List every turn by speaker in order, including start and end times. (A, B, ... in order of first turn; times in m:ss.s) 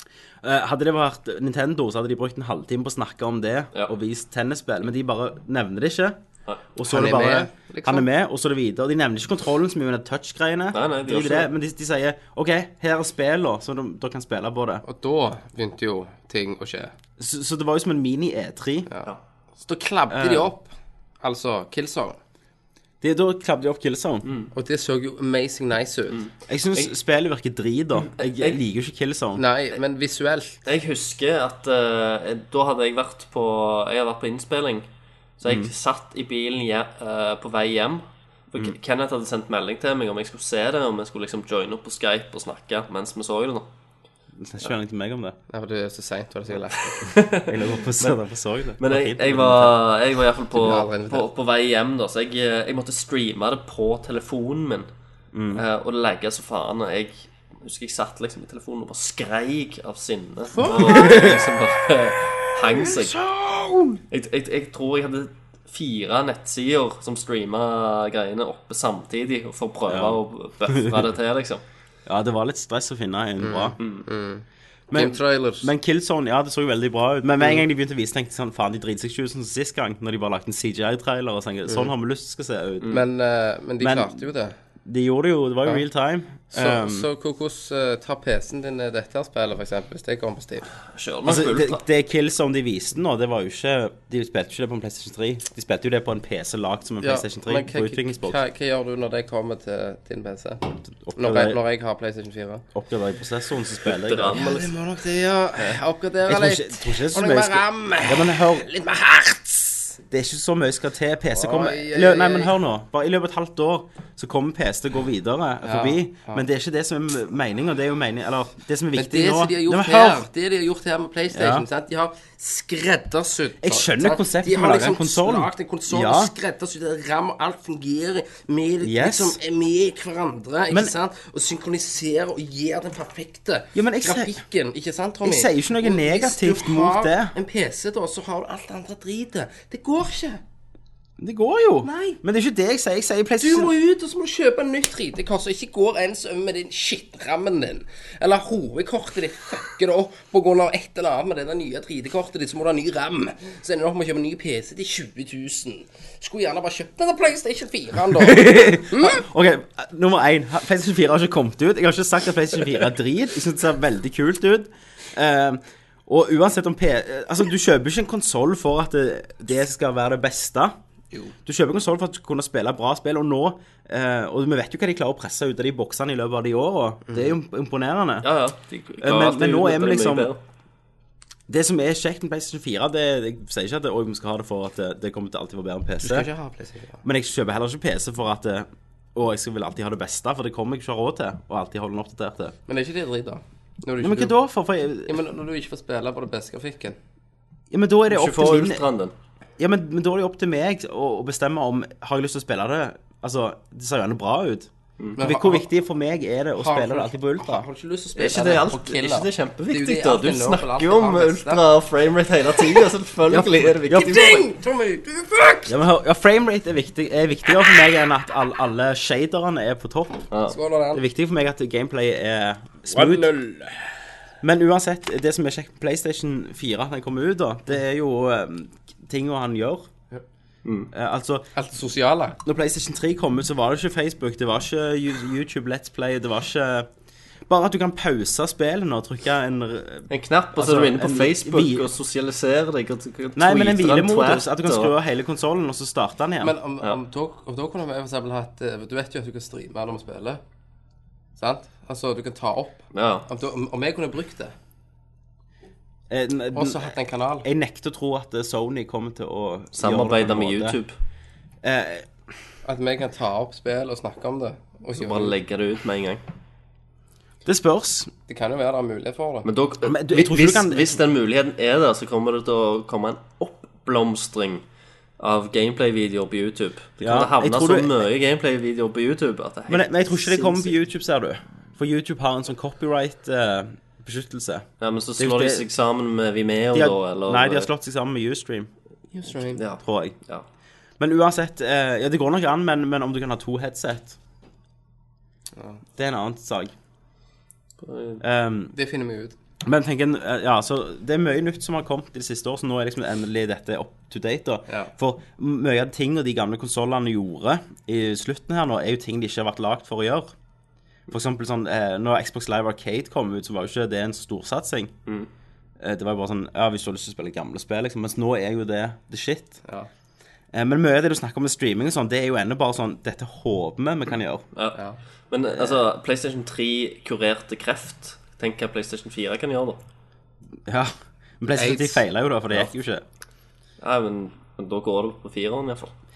0:00.4-0:06.2 A
0:06.8-0:14.8 A
0:06.8-0:08.0 B
0:10.7-0:11.5 C
0:14.8-0:16.9 B
0:17.2-0:18.9 A
0:19.6-0:22.2 B
0:20.1-0:20.5 A
0:23.0-0:24.3 A
0:24.2-0:24.5 C
0:24.5-0:26.2 B
0:26.1-0:26.9 C
0:26.5-0:29.4 A
0:28.1-0:28.6 C
0:29.4-0:30.6 B
0:30.6-0:34.9 C
0:35.4-0:43.7 C
0:35.4-0:35.7 A
0:44.4-0:45.4 A
0:45.5-0:47.0 B
0:46.9-0:48.2 C
0:47.5-0:49.8 A
0:48.8-0:54.9 C
0:50.5-0:51.3 B
0:55.3-0:55.6 A
0:55.5-1:03.2 C
1:00.6-1:01.5 A
1:02.7-1:04.0 A
1:04.1-1:11.6 C
1:09.9-1:11.1 A
1:12.0-1:13.8 A
1:13.4-1:15.7 B
1:13.8-1:14.0 C
1:14.9-1:23.0 A
1:22.9-1:24.5 B
1:23.8-1:24.2 A
1:24.8-1:27.1 A
1:26.5-1:30.7 B
1:30.9-1:31.8 C
1:31.2-1:38.4 A
1:37.0-1:42.6 B
1:40.9-1:41.6 A
1:42.7-1:44.5 A
1:43.9-1:44.7 C
1:44.3-1:50.0 B
1:46.2-1:48.7 A
1:50.1-2:00.2 A
1:51.3-1:52.5 B
1:55.6-1:56.4 B
1:58.9-2:20.4 B
2:01.3-2:01.6 A
2:03.6-2:06.3 A
2:08.8-2:09.4 A
2:13.7-2:14.4 A
2:15.2-2:17.3 A
2:21.2-2:23.7 A
2:21.8-2:22.2 B
2:23.4-2:39.2 B
2:38.1-2:50.7 A
2:51.4-2:58.3 A
2:57.1-2:57.3 B
2:58.2-3:00.4 C
2:59.0-3:00.3 A
3:01.5-3:06.3 A
3:06.0-3:07.0 B
3:07.0-3:12.6 A
3:12.7-3:14.4 B
3:14.0-3:15.2 A
3:15.0-3:17.0 B
3:17.7-3:18.8 A
3:18.1-3:19.1 C
3:19.6-3:27.6 A
3:25.2-3:25.6 B
3:26.6-3:31.6 B
3:28.2-3:34.4 C
3:33.3-3:34.2 A
3:33.9-3:35.8 B
3:35.7-3:40.3 A
3:40.5-3:41.0 B
3:40.9-3:43.3 A
3:42.9-3:43.9 B
3:44.4-3:49.9 A
3:50.6-3:50.9 C
3:50.9-3:51.5 A
3:51.5-3:52.4 B
3:52.4-3:56.9 A
3:57.5-4:01.9 A
4:00.1-4:04.9 C
4:03.4-4:06.5 A
4:06.4-4:10.4 B
4:11.4-4:14.5 B
4:12.9-4:13.3 C
4:16.1-4:20.8 A
4:16.5-4:17.4 B
4:19.7-4:20.9 C
4:21.6-4:22.1 A
4:22.6-4:25.3 B
4:25.0-4:26.2 C
4:27.4-4:28.1 A
4:28.3-4:29.5 B
4:29.4-4:34.6 C
4:29.8-4:31.0 A
4:35.2-4:40.7 C
4:37.0-4:38.0 A
4:39.7-4:44.6 A
4:44.8-4:47.7 C
4:45.2-4:45.7 A
4:46.7-4:48.7 A
4:49.1-4:49.6 B
4:49.5-4:50.4 C
4:49.8-4:50.2 A
4:51.0-4:54.2 A
4:55.6-4:55.8 B
4:56.0-4:56.7 A
4:57.8-4:58.2 C
4:58.2-4:58.7 A
4:58.7-4:59.3 B
4:59.6-5:10.3 A
5:11.1-5:14.9 A
5:15.8-5:19.6 A
5:20.5-5:24.4 A
5:25.3-5:29.8 C
5:30.6-5:33.0 A
5:31.5-5:32.0 B
5:33.8-5:35.9 C